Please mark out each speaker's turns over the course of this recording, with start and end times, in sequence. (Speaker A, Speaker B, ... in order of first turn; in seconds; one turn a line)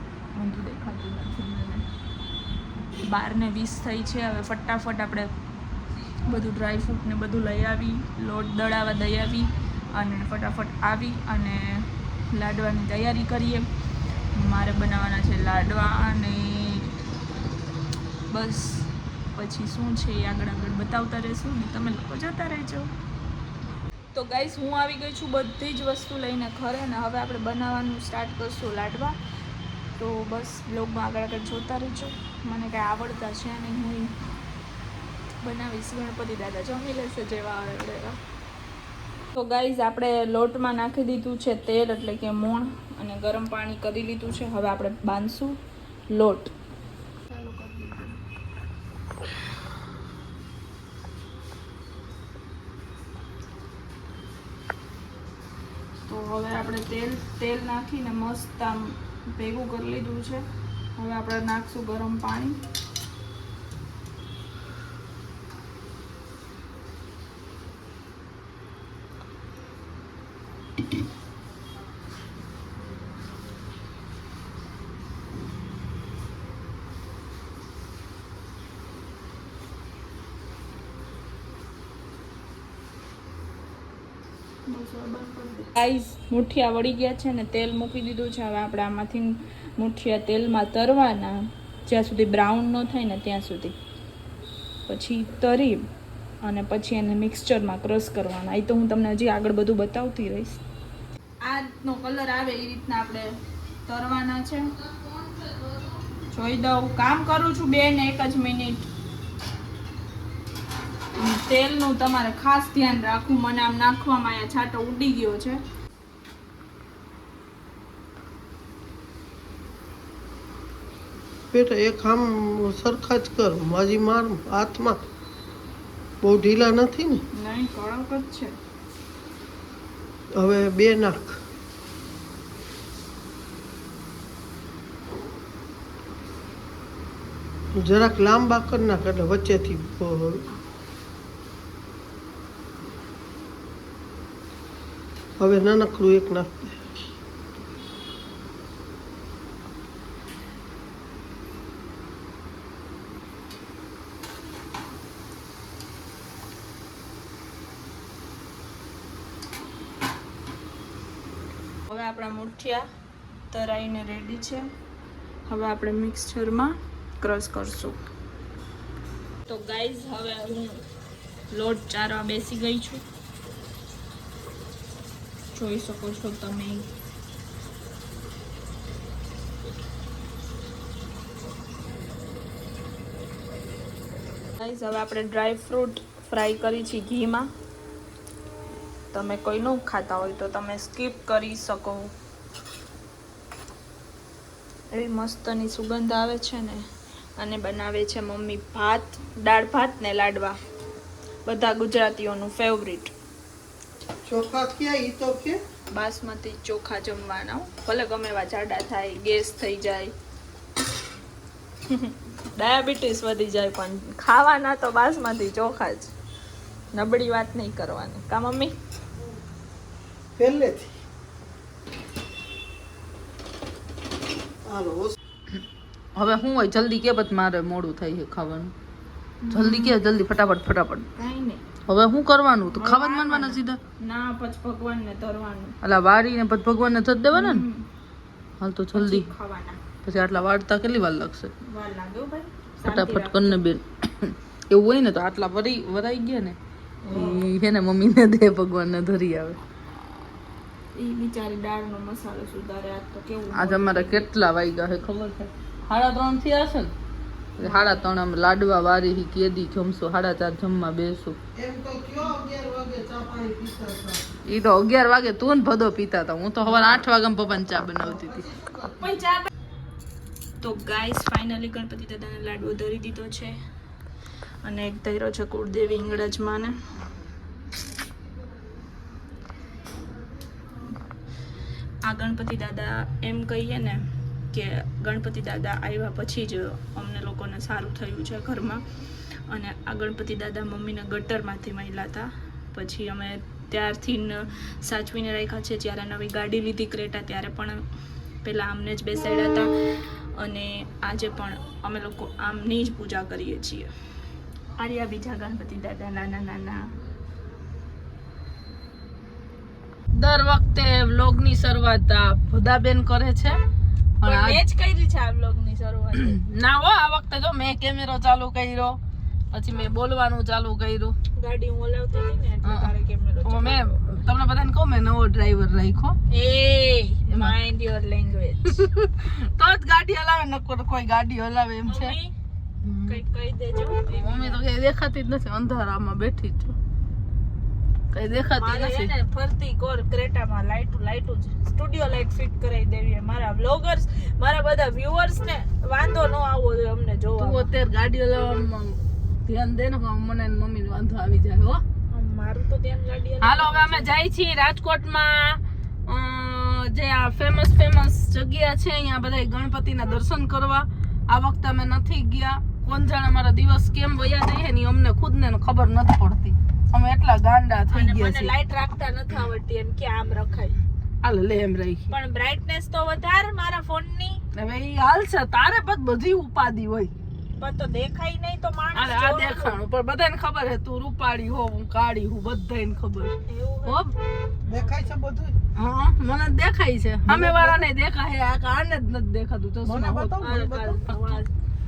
Speaker A: 0.3-1.9
Speaker A: 3.0-5.3
Speaker A: 6.3-13.7
Speaker A: 14.3-16.9
Speaker A: 18.3-22.9
Speaker A: 24.1-29.2
Speaker A: 29.9-34.1
Speaker A: 35.4-38.2
Speaker A: 39.4-45.6
Speaker A: 46.1-46.5
Speaker A: 47.3-48.2
Speaker A: 56.0-62.6
Speaker A: 84.7-93.8
Speaker A: 94.9-95.9
Speaker A: 96.4-100.6
Speaker A: 101.4-104.7
Speaker B: 104.9-105.7
Speaker A: 106.3-108.9
Speaker A: 111.2-115.6
Speaker C: 121.5-125.0
Speaker C: 126.2-127.2
Speaker A: 127.3-128.6
Speaker C: 130.4-131.4
Speaker C: 137.8-140.4
Speaker C: 145.4-146.8
Speaker A: 161.9-162.9
Speaker A: 163.5-164.7
Speaker A: 165.5-168.0
Speaker A: 169.5-170.8
Speaker A: 171.5-173.0
Speaker A: 175.5-176.9
Speaker A: 184.6-187.5
Speaker A: 189.1-192.1
Speaker A: 194.9-196.8
Speaker A: 197.4-200.6
Speaker A: 201.4-203.1
Speaker C: 204.3-205.6
Speaker A: 205.9-210.1
Speaker A: 211.9-216.1
Speaker A: 216.9-218.7
Speaker C: 220.4-220.9
Speaker C: 224.7-225.2
Speaker B: 226.2-228.7
Speaker A: 229.4-230.0
Speaker B: 229.5-231.1
Speaker A: 231.2-231.6
Speaker B: 231.9-233.8
Speaker A: 232.7-235.8
Speaker B: 235.8-237.7
Speaker A: 237.3-237.9
Speaker B: 238.6-239.3
Speaker A: 238.9-239.8
Speaker B: 240.0-241.5
Speaker A: 241.6-243.6
Speaker B: 242.8-246.6
Speaker A: 247.0-247.5
Speaker B: 247.1-249.6
Speaker A: 250.9-254.3
Speaker B: 253.5-256.9
Speaker B: 257.6-261.4
Speaker A: 257.6-258.0
Speaker C: 261.6-264.2
Speaker B: 264.4-268.5
Speaker C: 268.2-269.1
Speaker A: 269.0-269.5
Speaker A: 270.6-273.6
Speaker A: 274.6-276.8
Speaker A: 282.0-288.8
Speaker A: 289.5-297.8
Speaker A: 298.4-303.9
Speaker A: 304.8-306.9
Speaker B: 310.1-313.6
Speaker B: 314.2-314.6
Speaker A: 314.2-316.4
Speaker B: 316.1-319.0
Speaker B: 319.5-321.1
Speaker A: 321.4-323.9
Speaker B: 322.6-322.9
Speaker B: 323.4-326.2
Speaker A: 326.3-328.8
Speaker B: 327.3-327.6
Speaker B: 328.7-332.2
Speaker A: 331.9-332.3
Speaker B: 332.8-333.2
Speaker A: 333.1-334.6
Speaker B: 334.1-336.8
Speaker B: 338.1-339.1
Speaker A: 338.6-347.7
Speaker B: 347.4-351.8
Speaker A: 352.1-354.1
Speaker B: 353.4-368.5
Speaker A: 367.9-370.8
Speaker B: 371.2-372.1
Speaker A: 372.1-374.4
Speaker B: 374.5-377.1
Speaker A: 377.6-379.8
Speaker B: 378.9-384.1
Speaker A: 383.5-384.1
Speaker A: 384.7-385.1
Speaker C: 384.7-385.5
Speaker B: 385.8-390.4
Speaker C: 387.3-387.8
Speaker C: 389.9-391.0
Speaker A: 390.4-391.5
Speaker B: 391.1-391.3